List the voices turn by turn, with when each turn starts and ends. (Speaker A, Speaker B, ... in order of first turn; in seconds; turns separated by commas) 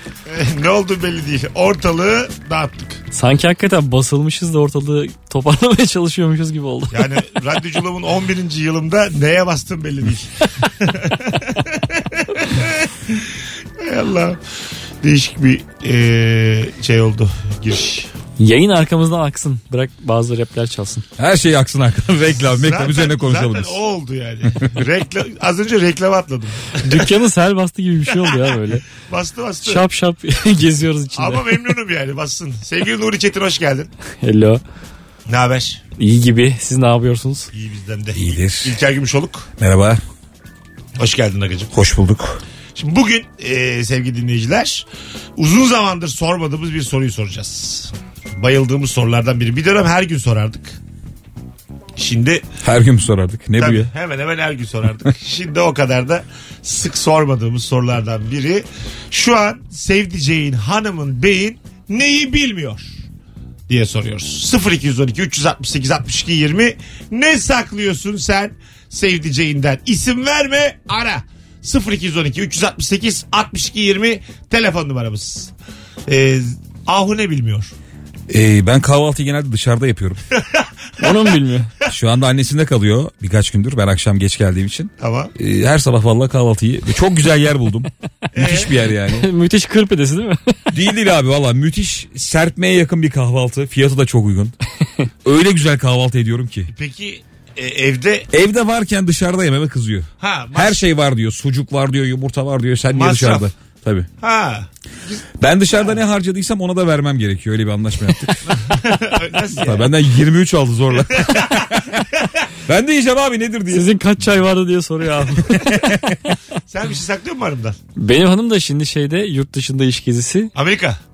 Speaker A: 0.3-3.0, Speaker B: 3.1-7.1, Speaker A: 6.9-13.3, Speaker A: 13.8-14.4, Speaker A: 15.0-18.1, Speaker B: 18.4-21.1, Speaker C: 21.2-23.8, Speaker A: 22.4-27.1, Speaker B: 26.8-28.9, Speaker A: 29.0-29.9, Speaker B: 29.6-31.4, Speaker A: 31.1-33.9, Speaker B: 34.2-34.6, Speaker A: 35.3-35.8, Speaker B: 36.0-37.5, Speaker A: 37.5-39.5, Speaker C: 38.1-38.8, Speaker C: 39.6-40.0, Speaker A: 41.0-41.7, Speaker C: 41.7-42.4, Speaker A: 42.8-44.9, Speaker A: 45.4-50.8, Speaker A: 52.0-52.4, Speaker C: 52.6-53.9, Speaker A: 53.6-63.0, Speaker A: 63.7-75.5, Speaker A: 76.1-77.7, Speaker C: 78.3-80.2, Speaker A: 80.4-80.7, Speaker B: 81.0-81.7, Speaker C: 81.9-89.3, Speaker A: 85.0-85.3, Speaker A: 88.3-88.7, Speaker B: 89.1-90.7, Speaker C: 90.7-94.5, Speaker C: 95.2-96.7, Speaker A: 96.7-98.3, Speaker C: 98.3-104.1, Speaker A: 100.2-100.8, Speaker A: 102.9-103.5, Speaker A: 104.2-105.2, Speaker C: 105.4-108.6, Speaker A: 108.5-109.9, Speaker C: 109.6-111.8, Speaker A: 111.1-112.4, Speaker C: 112.7-113.9, Speaker B: 113.7-115.8, Speaker A: 116.7-117.8, Speaker B: 118.0-120.5, Speaker A: 120.5-121.0